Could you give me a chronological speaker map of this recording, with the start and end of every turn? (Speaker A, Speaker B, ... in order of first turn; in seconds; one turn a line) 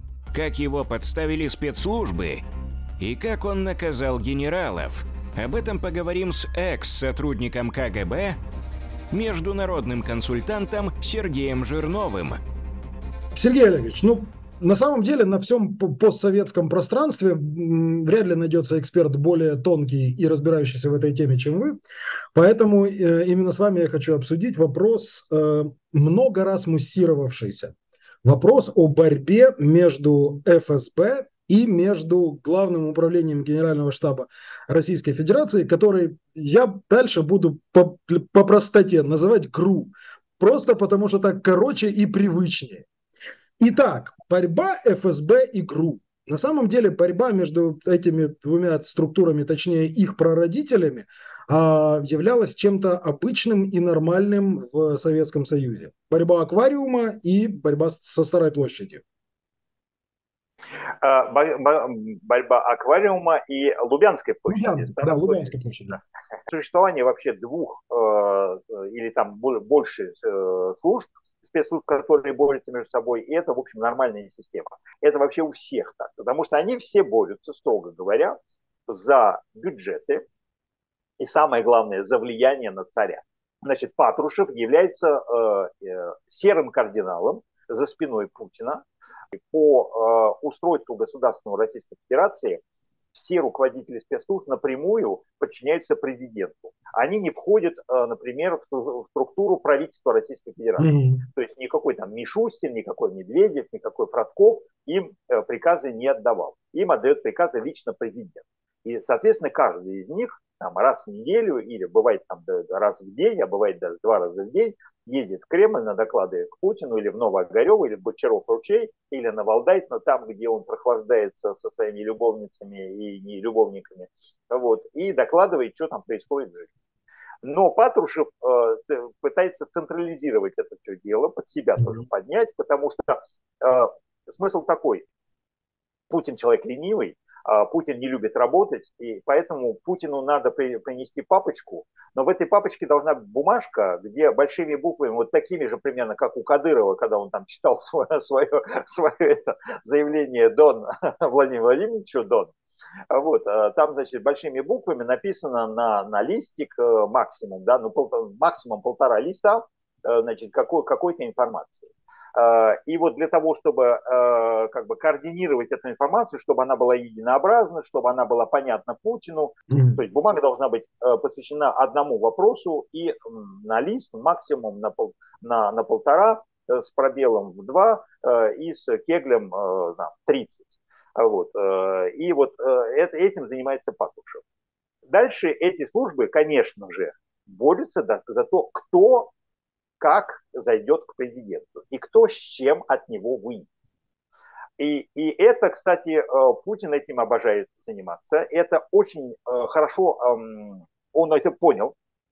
Speaker A: 0.3-2.4
Speaker A: 3.0-8.3
Speaker A: 9.1-12.4
Speaker B: 13.3-21.8
Speaker B: 22.3-42.9
Speaker B: 43.6-59.0
Speaker C: 61.0-65.5
Speaker B: 64.5-66.0
Speaker C: 66.5-78.3
Speaker C: 78.9-80.2
Speaker C: 81.2-88.8
Speaker C: 89.3-92.6
Speaker C: 93.1-126.7
Speaker B: 100.8-101.2
Speaker C: 127.4-135.0
Speaker C: 136.1-152.5
Speaker C: 153.1-184.4
Speaker B: 169.7-170.0
Speaker C: 185.1-189.3
Speaker C: 190.0-193.7
Speaker C: 194.8-201.9